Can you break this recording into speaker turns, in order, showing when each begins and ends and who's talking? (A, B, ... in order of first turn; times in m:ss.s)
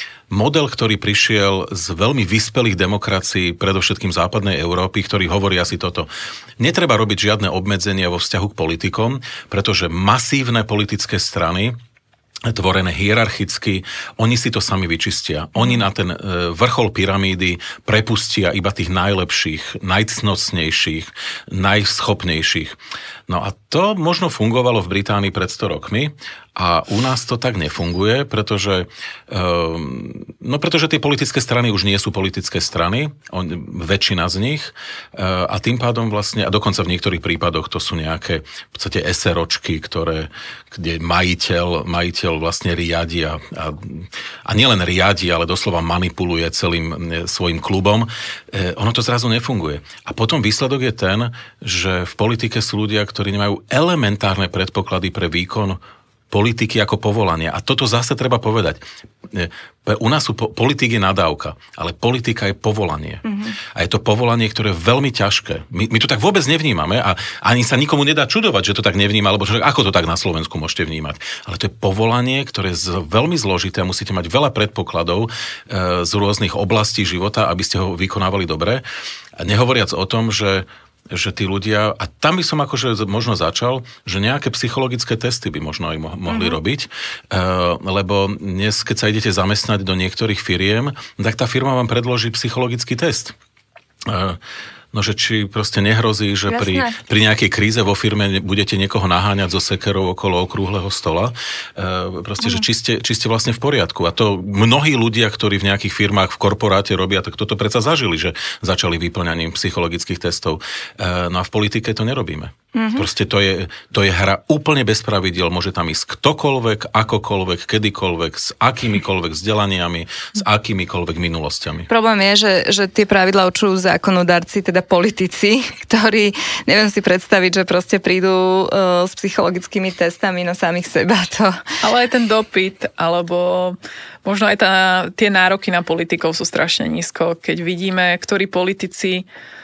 0:00.3-0:11.8 A
0:12.4-1:18.8 A
1:03.2-1:03.6 B
1:19.4-1:33.3 A
1:26.3-1:26.6 B
1:34.0-1:34.4 A
1:34.9-2:01.9 A
1:36.5-1:37.0 B
1:52.7-1:53.1 B
2:01.9-2:11.6 B
2:11.8-2:19.3 C